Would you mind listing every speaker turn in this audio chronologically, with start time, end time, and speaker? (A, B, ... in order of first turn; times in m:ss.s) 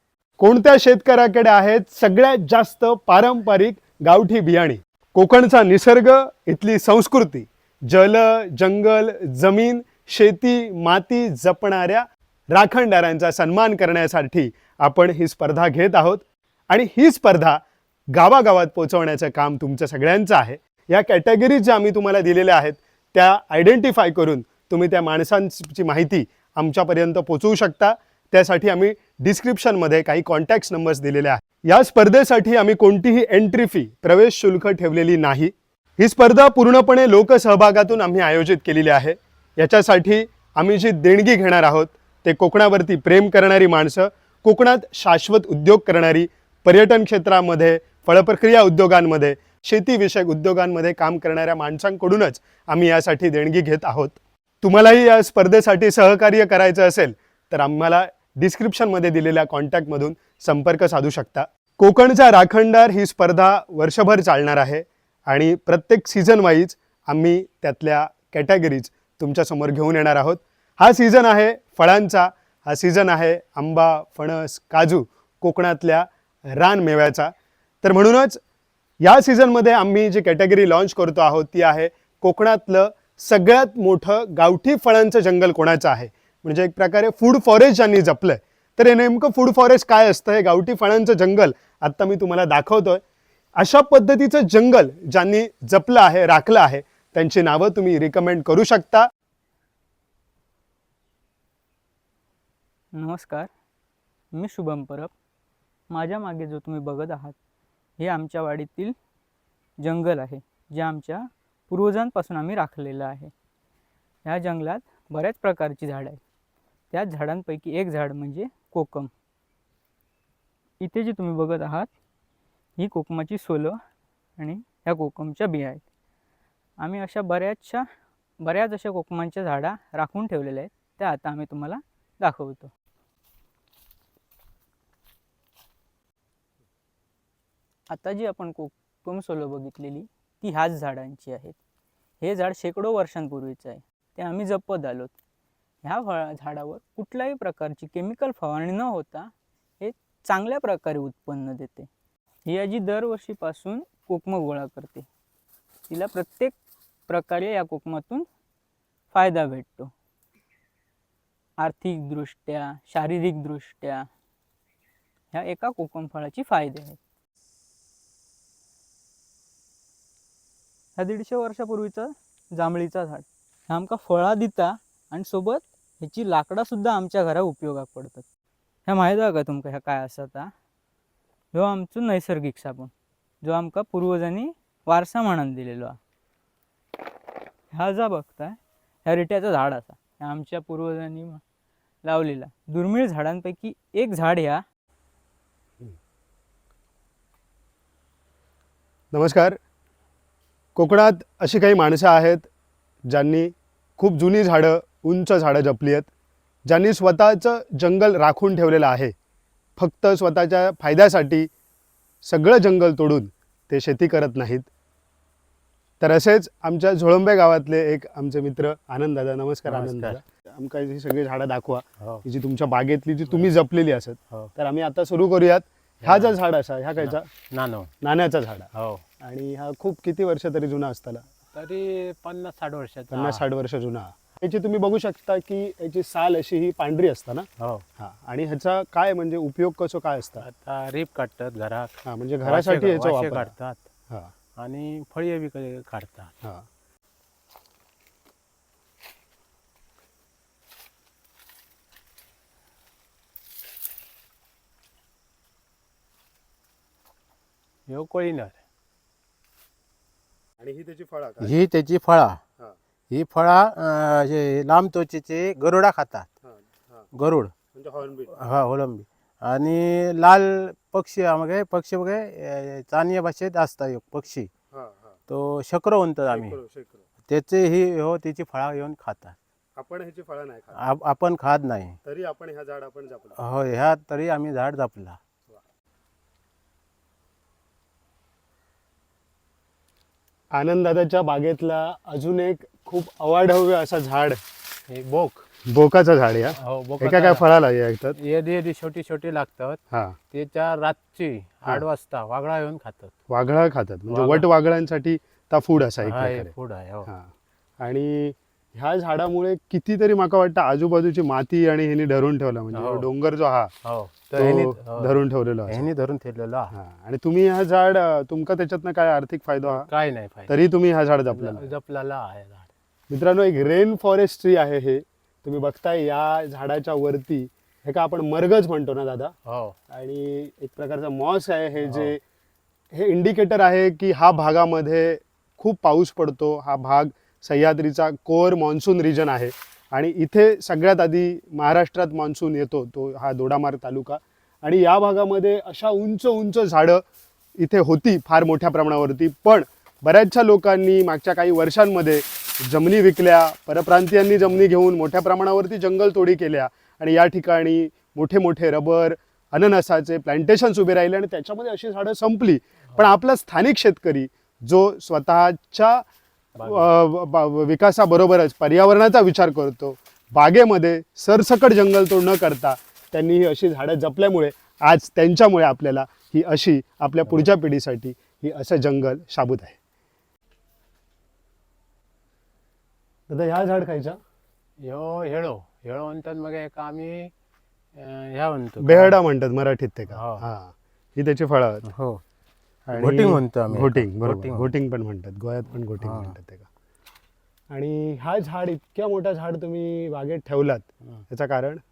0:00.4-1:18.4 A
1:19.0-1:33.0 A
1:33.6-1:39.1 A
1:42.9-1:43.5 B
1:44.3-1:45.1 B
1:45.9-1:47.3 B
1:48.0-1:48.9 B
1:49.8-1:53.3 B
1:54.2-1:56.2 B
1:56.9-1:59.1 B
2:00.8-2:01.9 B
2:02.8-2:03.8 B
2:04.4-2:05.8 B
2:06.8-2:07.8 B
2:08.4-2:12.7 B
2:17.9-2:21.6 B
2:22.2-2:25.1 B
2:25.8-2:31.9 B
2:32.4-2:35.1 B
2:35.9-2:36.5 B
2:37.1-2:38.2 B
2:39.1-2:39.9 B
2:41.6-2:44.0 B
2:45.3-2:47.0 B
2:51.0-2:58.2 B
2:58.8-3:00.5 B
3:01.5-3:02.9 B
3:03.4-3:06.0 B
3:07.7-3:11.4 B
3:12.0-3:14.6 B
3:19.1-3:19.6 A
3:20.7-3:22.5 A
3:23.1-3:26.1 A
3:26.6-3:29.1 A
3:29.8-3:31.5 A
3:32.2-3:34.7 A
3:36.0-3:47.3 A
3:39.7-3:40.2 C
3:46.0-3:46.3 C
3:47.0-3:47.9 C
3:48.0-3:48.7 A
3:48.7-3:49.0 C
3:49.2-3:51.2 A
3:51.5-3:53.4 C
3:53.1-3:57.5 A
3:57.6-3:57.8 C
3:58.0-4:00.4 A
4:00.4-4:03.8 C
4:02.0-4:03.5 A
4:04.6-4:06.3 C
4:17.9-4:18.6 C
4:20.6-4:21.5 A
4:21.4-4:22.4 C
4:23.1-4:26.3 C
4:26.4-4:27.0 A
4:27.1-4:27.5 C
4:27.7-4:28.3 A
4:28.2-4:34.5 C
4:34.7-4:35.2 A
4:35.3-4:36.6 C
4:36.3-4:37.0 A
4:37.2-4:39.4 C
4:39.8-4:40.8 A
4:40.8-4:42.0 C
4:42.0-4:43.4 A
4:43.4-4:45.2 C
4:50.5-4:54.4 A
4:54.9-4:55.4 C
4:55.7-4:58.2 A
4:56.6-4:57.4 C
4:58.1-5:03.1 C
4:59.9-5:00.2 A
5:03.3-5:06.5 A
5:04.1-5:04.4 C
5:06.0-5:07.1 C
5:07.0-5:13.7 A
5:12.7-5:13.1 C
5:13.8-5:15.1 C
5:14.4-5:15.9 A
5:15.7-5:16.7 C
5:16.7-5:19.9 A
5:19.6-5:20.5 C
5:20.5-5:21.7 A
5:21.3-5:22.7 C
5:23.1-5:29.3 A
5:29.4-5:29.7 C
5:29.9-5:32.2 A
5:31.8-5:32.1 C
5:32.9-5:47.0 A
5:47.6-6:06.0 A
6:06.6-6:06.9 C
6:06.6-6:19.8 A
6:23.3-6:24.2 A
6:24.8-6:27.3 C
6:28.0-6:29.2 C
6:28.8-6:31.8 A
6:30.1-6:30.4 C
6:31.8-6:32.2 C
6:32.9-6:36.7 A
6:32.9-6:34.7 C
6:36.0-6:36.4 C
6:37.7-6:41.8 A